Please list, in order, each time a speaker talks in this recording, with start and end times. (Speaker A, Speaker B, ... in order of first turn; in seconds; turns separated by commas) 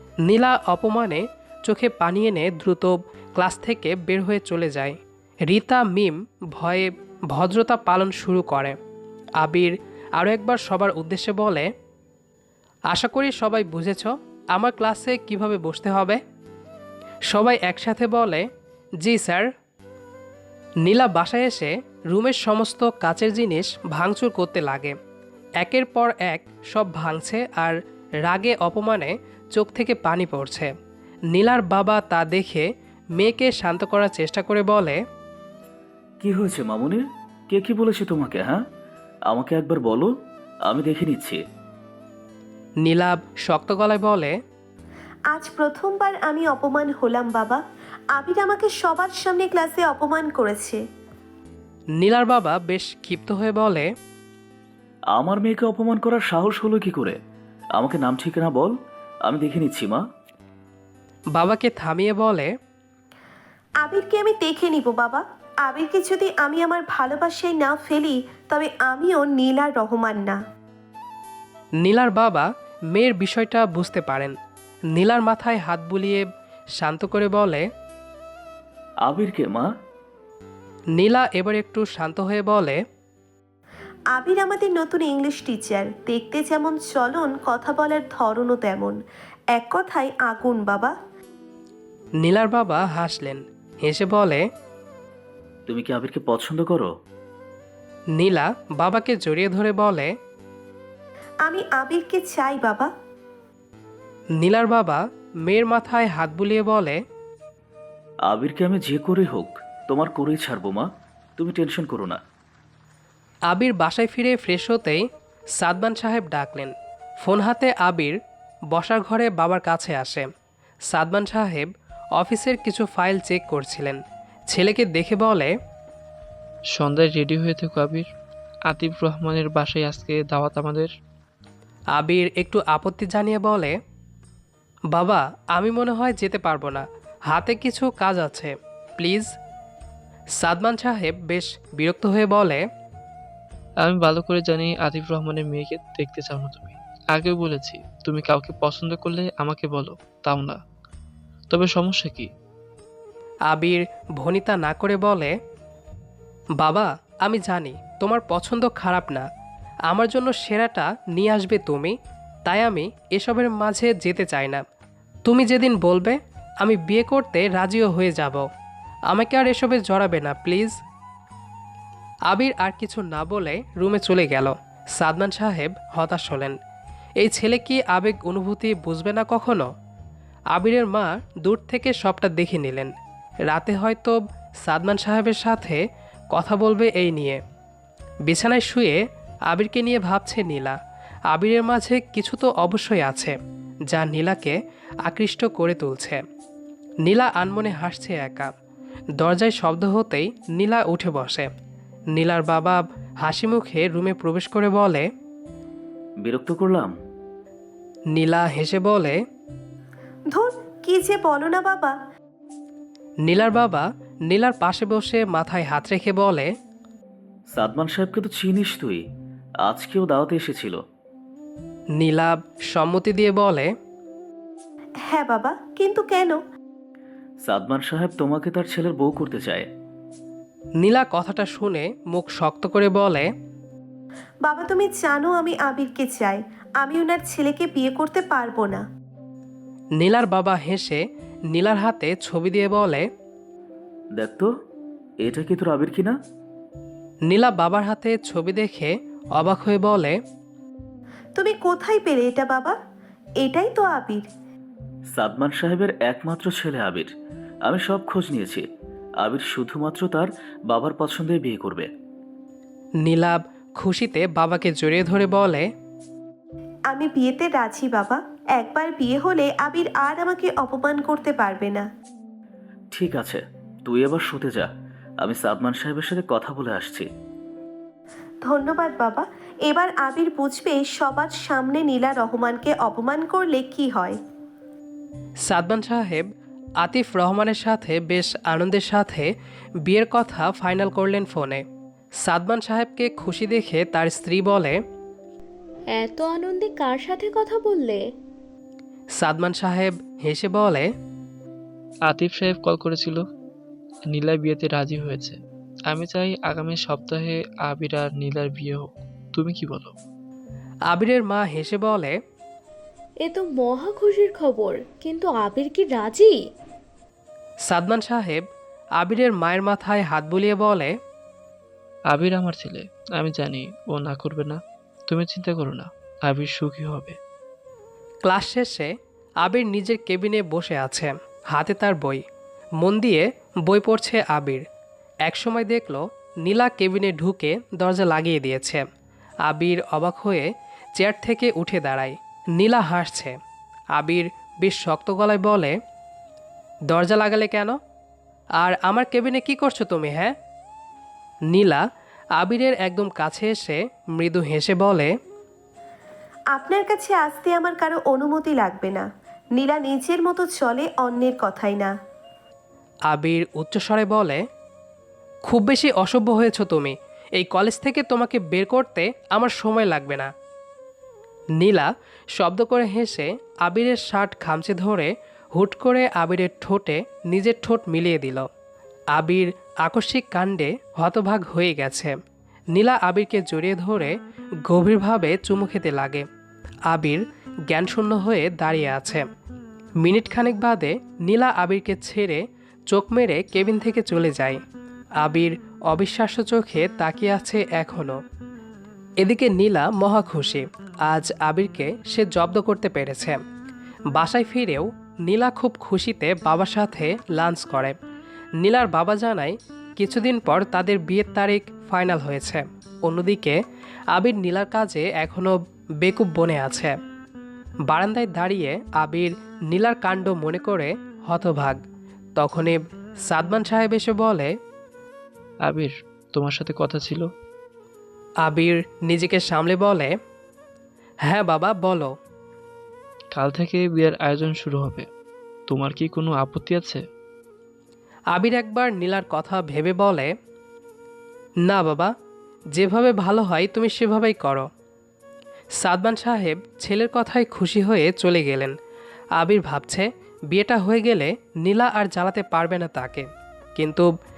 Speaker A: 0.2-8.8, Speaker A: 9.4-11.7, Speaker A: 12.9-16.2, Speaker A: 17.3-18.4, Speaker A: 19.0-19.5, Speaker A: 20.8-24.9, Speaker A: 25.6-30.7, Speaker A: 31.3-35.0, Speaker B: 36.2-38.6, Speaker B: 39.3-40.1, Speaker B: 40.6-41.4, Speaker A: 42.8-44.3, Speaker C: 45.3-47.6, Speaker C: 48.1-50.8, Speaker A: 52.0-53.9, Speaker B: 55.1-57.2, Speaker B: 57.7-58.7, Speaker B: 59.2-60.0, Speaker A: 61.3-62.5, Speaker C: 63.8-70.4, Speaker A: 71.8-74.3, Speaker A: 74.9-77.6, Speaker B: 79.0-79.7, Speaker A: 80.9-82.8, Speaker C: 84.1-89.0, Speaker C: 89.5-90.9, Speaker A: 92.2-94.4, Speaker B: 95.7-96.9, Speaker A: 98.2-100.1, Speaker C: 101.4-102.9, Speaker A: 104.4-107.0, Speaker B: 108.2-112.2, Speaker A: 113.5-115.0, Speaker A: 115.6-118.2, Speaker A: 118.7-120.3, Speaker A: 120.9-125.5, Speaker D: 126.7-128.1, Speaker D: 128.7-130.9, Speaker A: 131.9-133.8, Speaker A: 134.9-139.4, Speaker A: 140.4-142.6, Speaker D: 143.8-150.6, Speaker D: 151.5-152.3, Speaker A: 153.5-155.3, Speaker A: 156.6-159.2, Speaker A: 159.9-164.6, Speaker A: 165.2-168.5, Speaker A: 169.1-170.8, Speaker A: 172.3-176.6, Speaker A: 177.2-179.7, Speaker A: 180.5-182.9, Speaker A: 183.5-185.8, Speaker A: 186.3-187.4, Speaker A: 188.2-189.0, Speaker A: 189.5-190.8, Speaker A: 191.3-193.3, Speaker A: 193.9-196.2, Speaker A: 197.0-198.5, Speaker A: 199.2-201.5, Speaker A: 202.1-205.1, Speaker B: 206.2-206.9, Speaker A: 208.1-209.2, Speaker C: 210.3-211.9, Speaker A: 213.2-216.5, Speaker B: 217.5-219.0, Speaker B: 219.6-220.8, Speaker A: 222.0-223.7, Speaker C: 225.1-226.4, Speaker B: 227.4-229.7, Speaker A: 230.8-233.3, Speaker C: 234.4-238.8, Speaker A: 240.0-241.0, Speaker A: 241.5-243.1, Speaker B: 244.1-244.5, Speaker B: 245.2-246.2, Speaker A: 247.3-250.2, Speaker C: 251.4-252.8, Speaker C: 253.4-254.2, Speaker B: 255.1-257.1, Speaker B: 257.6-258.6, Speaker B: 259.2-261.9, Speaker A: 263.0-265.7, Speaker C: 266.9-271.9, Speaker B: 272.9-274.7, Speaker B: 275.2-277.1, Speaker C: 278.4-284.2, Speaker A: 285.4-286.3, Speaker A: 286.8-289.3, Speaker A: 289.8-291.6, Speaker A: 292.2-294.8, Speaker E: 295.9-298.1, Speaker A: 299.1-300.9, Speaker D: 302.0-303.2, Speaker D: 304.1-309.9, Speaker A: 310.9-312.1, Speaker E: 313.2-316.4, Speaker A: 317.6-318.5, Speaker A: 319.0-320.9, Speaker D: 322.1-327.2, Speaker A: 328.2-332.2, Speaker A: 332.8-334.6, Speaker A: 335.2-338.8, Speaker A: 339.4-343.4, Speaker A: 343.9-345.7, Speaker A: 346.9-347.8, Speaker A: 348.6-350.3, Speaker A: 351.5-351.8, Speaker A: 352.4-355.1, Speaker C: 356.5-361.9, Speaker A: 363.1-364.4, Speaker A: 365.4-370.3, Speaker A: 371.6-378.5, Speaker A: 379.1-382.1, Speaker A: 382.7-386.2, Speaker A: 386.9-389.2, Speaker A: 390.0-394.6, Speaker A: 395.2-398.2, Speaker A: 399.2-403.4, Speaker A: 404.1-407.9, Speaker A: 408.6-413.6, Speaker A: 414.1-416.9, Speaker A: 417.9-421.8, Speaker A: 422.3-424.5, Speaker D: 425.6-427.3, Speaker A: 428.4-430.1, Speaker A: 431.2-432.1, Speaker D: 433.3-435.1, Speaker D: 435.7-437.0, Speaker A: 438.3-440.3, Speaker A: 441.6-442.1, Speaker A: 442.7-444.7, Speaker A: 445.8-448.7, Speaker A: 449.4-454.1